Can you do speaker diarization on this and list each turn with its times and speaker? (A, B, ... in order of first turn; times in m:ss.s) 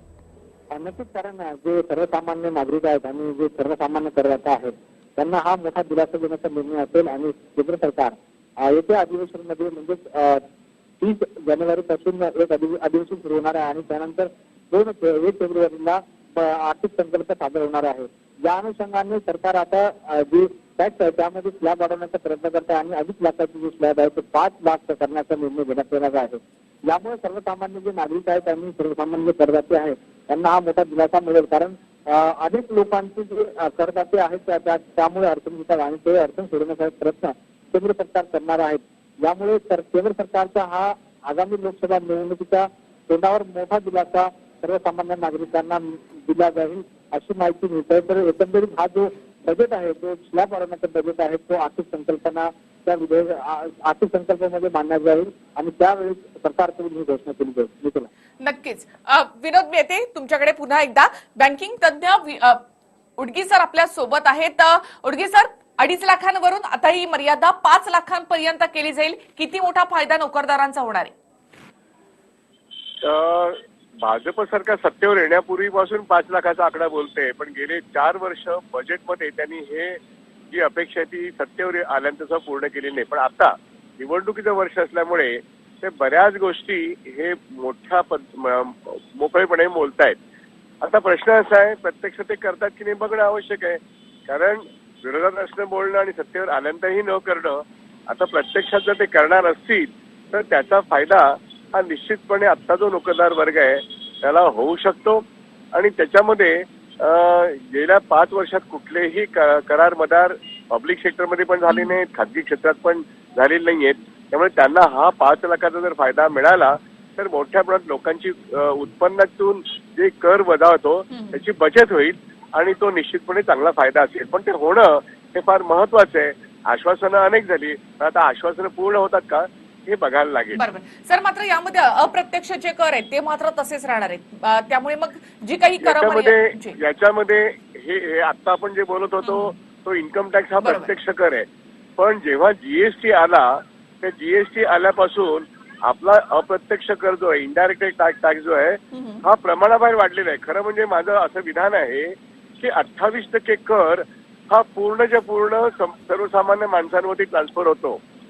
0:00.7-0:10.4 A
0:11.0-0:58.1 A
0:58.4-1:02.6 B
1:03.2-1:11.1 B
1:13.0-1:20.0 C
1:20.5-1:30.2 C
1:30.8-2:10.6 C
1:51.7-1:52.0 B
2:01.1-2:01.4 B
2:10.6-2:16.8 B
2:15.8-2:21.4 C
2:19.2-2:19.5 B
2:20.6-2:20.9 B
2:22.0-2:38.0 C
2:28.9-2:29.2 B